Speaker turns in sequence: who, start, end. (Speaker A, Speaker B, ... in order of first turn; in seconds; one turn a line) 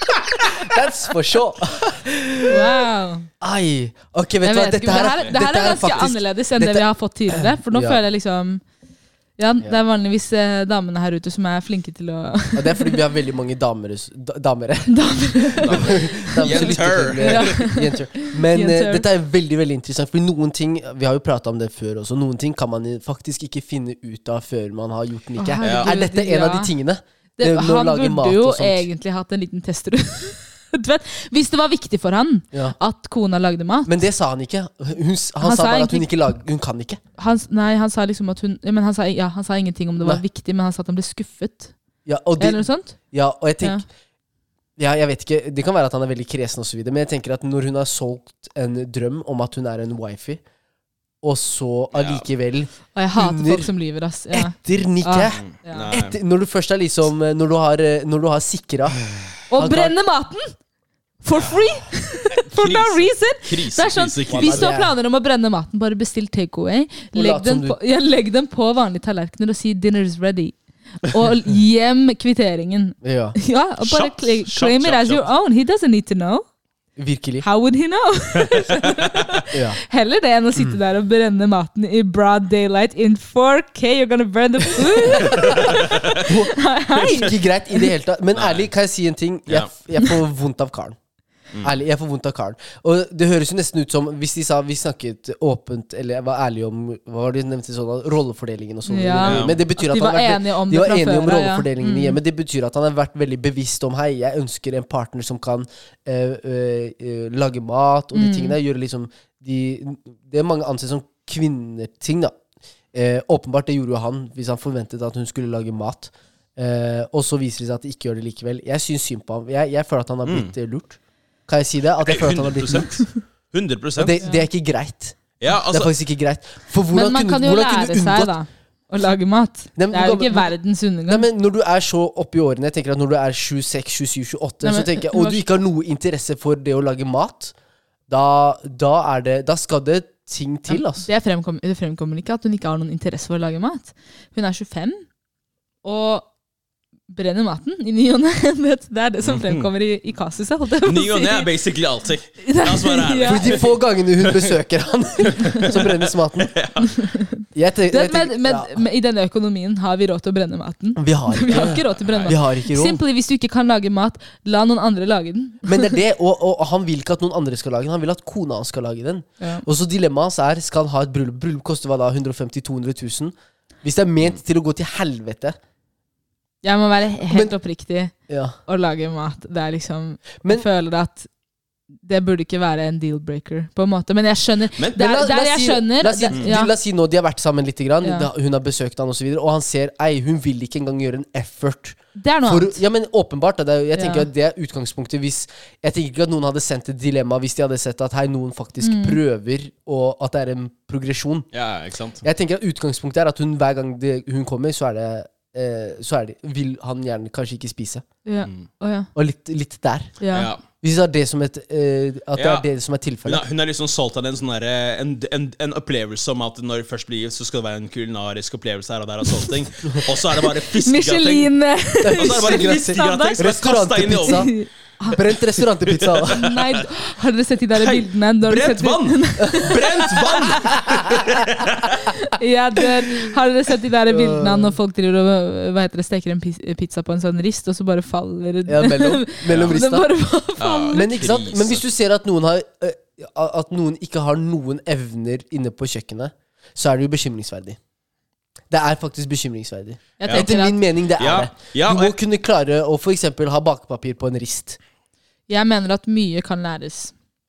Speaker A: 0.4-2.6
Speaker B: 2.5-3.3
Speaker A: 3.4-8.0
Speaker B: 4.4-8.6
Speaker B: 9.4-13.0
Speaker A: 12.6-28.9
Speaker B: 14.9-19.1
Speaker C: 15.6-17.6
Speaker B: 25.4-26.7
Speaker C: 25.6-25.9
Speaker B: 27.4-34.0
Speaker A: 33.9-37.0
Speaker B: 35.4-36.1
Speaker B: 37.2-41.7
Speaker A: 42.1-43.8
Speaker B: 42.4-43.0
Speaker A: 44.8-50.4
Speaker A: 51.2-53.7
Speaker C: 51.9-52.2
Speaker B: 52.9-55.9
Speaker A: 54.3-59.0
Speaker C: 55.4-56.2
Speaker B: 59.5-60.5
Speaker A: 59.5-59.9
Speaker B: 61.2-76.5
Speaker C: 62.4-64.7
Speaker A: 64.3-65.0
Speaker A: 67.1-67.8
Speaker A: 73.0-73.4
Speaker C: 73.8-75.3
Speaker A: 77.0-77.5
Speaker B: 77.4-87.9
Speaker C: 78.4-79.2
Speaker A: 79.5-79.8
Speaker A: 85.0-91.0
Speaker C: 85.3-86.2
Speaker C: 88.4-88.7
Speaker A: 91.6-112.4
Speaker B: 98.9-102.2
Speaker C: 99.2-99.6
Speaker B: 108.1-108.6
Speaker A: 112.9-123.1
Speaker C: 120.2-120.5
Speaker C: 122.0-124.2
Speaker A: 124.0-128.3
Speaker B: 124.2-124.5
Speaker C: 125.4-125.9
Speaker B: 126.9-131.3
Speaker A: 129.8-130.5
Speaker A: 131.1-137.5
Speaker B: 134.6-135.4
Speaker A: 138.1-141.1
Speaker B: 140.7-145.1
Speaker B: 145.8-146.3
Speaker B: 147.1-151.5
Speaker C: 149.2-149.7
Speaker C: 150.8-154.6
Speaker B: 152.4-153.6
Speaker A: 153.2-156.6
Speaker C: 155.3-156.9
Speaker B: 156.9-166.0
Speaker A: 157.6-158.8
Speaker A: 161.0-163.0
Speaker C: 161.5-162.3
Speaker A: 165.7-175.6
Speaker B: 176.6-178.1
Speaker A: 177.3-177.5
Speaker A: 178.3-178.6
Speaker B: 178.7-181.3
Speaker B: 182.0-186.7
Speaker A: 184.9-201.5
Speaker B: 188.0-188.3
Speaker B: 192.2-192.8
Speaker B: 194.0-194.3
Speaker B: 198.8-199.2
Speaker C: 201.5-202.2
Speaker A: 202.2-208.1
Speaker B: 208.2-209.1
Speaker A: 209.2-210.2
Speaker B: 210.2-210.5
Speaker C: 210.3-210.6
Speaker A: 210.8-213.5
Speaker C: 212.4-212.7
Speaker C: 213.2-221.5
Speaker B: 220.8-223.4
Speaker A: 222.0-224.5
Speaker C: 222.1-224.5
Speaker B: 224.2-225.2
Speaker A: 225.1-226.4
Speaker C: 225.9-226.8
Speaker B: 226.3-231.0
Speaker C: 227.8-232.1
Speaker A: 230.7-231.2
Speaker B: 232.0-241.2
Speaker A: 234.1-234.8
Speaker A: 238.7-240.1
Speaker C: 239.5-239.8
Speaker C: 240.6-241.8
Speaker A: 240.9-247.8
Speaker A: 248.7-254.8
Speaker B: 250.2-250.8
Speaker C: 251.2-252.2
Speaker B: 255.5-257.1